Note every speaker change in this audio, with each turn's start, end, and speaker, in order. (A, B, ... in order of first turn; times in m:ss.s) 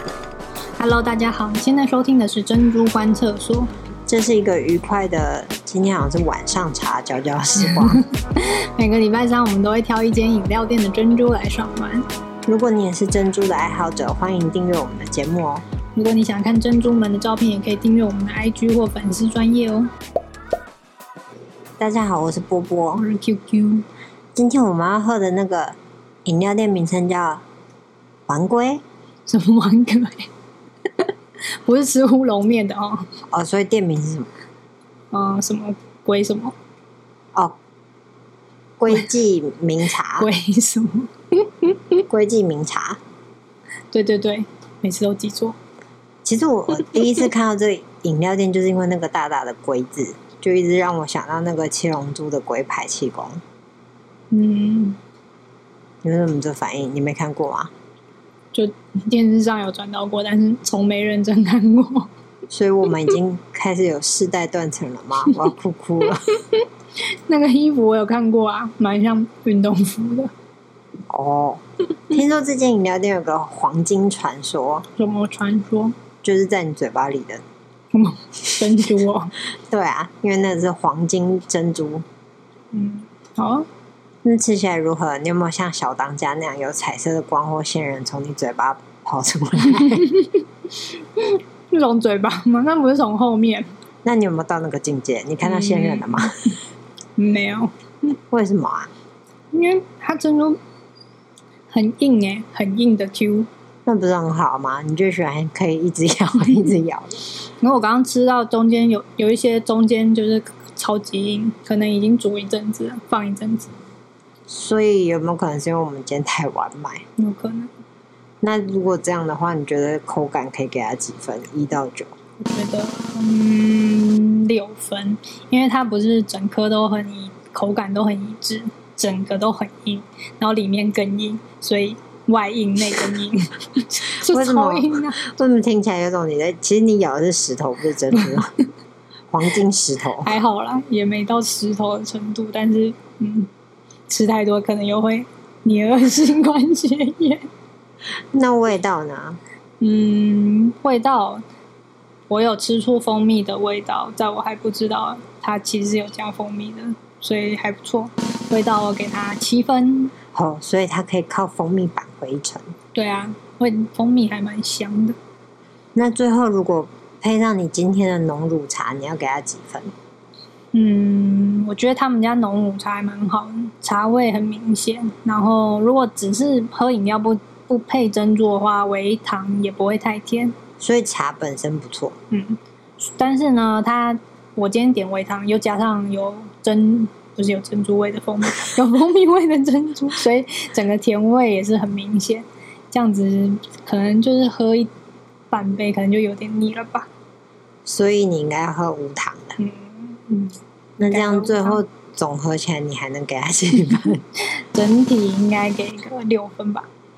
0:00.8-0:03.7 A
0:04.1-0:08.0 B
0:07.6-0:12.0 A
0:12.5-0:15.6 B
0:15.9-0:19.9 A
0:21.8-0:23.0 B
0:23.0-0:23.8 A
0:24.3-0:27.4 B
0:28.3-0:28.8 B
0:29.3-0:30.3 A
0:31.0-0:33.2 A
0:33.3-0:34.3 B
0:35.1-0:36.5 A
0:38.8-0:40.3 B
0:40.2-0:42.0 A
0:42.1-0:43.0 B
0:43.9-0:45.6 A
0:46.2-0:53.4 B
0:46.8-0:47.2 A
0:54.3-0:55.0 A
0:56.0-0:57.7 B
0:58.5-1:02.1 A
1:02.5-1:06.3 B
1:07.3-1:10.3 A
1:11.1-1:14.9 B
1:15.0-1:15.9 A
1:16.2-1:17.4 B
1:17.9-1:19.3 A
1:19.5-1:22.0 B
1:22.7-1:23.6 A
1:24.2-1:30.1 B
1:29.7-1:33.7 A
1:34.0-1:36.4 B
1:35.4-1:36.4 A
1:37.2-1:37.7 A
1:38.3-1:38.9 B
1:39.5-1:40.6 A
1:41.7-1:43.5 A
1:43.8-1:47.2 B
1:47.6-1:53.7 A
1:54.5-1:57.0 B
1:57.2-1:57.7 A
1:58.4-2:02.1 B
2:02.4-2:15.2 A
2:14.2-2:18.5 B
2:19.3-2:20.3 B
2:20.2-2:23.5 A
2:24.1-2:27.5 A
2:28.3-2:29.4 B
2:29.8-2:31.4 A
2:32.3-2:40.1 A
2:40.3-2:42.7 B
2:42.9-2:45.2 A
2:45.9-2:49.9 B
2:50.7-3:00.5 A
3:00.8-3:02.2 B
3:02.3-3:14.9 A
3:15.5-3:17.1 A
3:17.8-3:19.6 B
3:19.6-3:21.8 A
3:21.0-3:24.2 B
3:24.4-3:26.9 A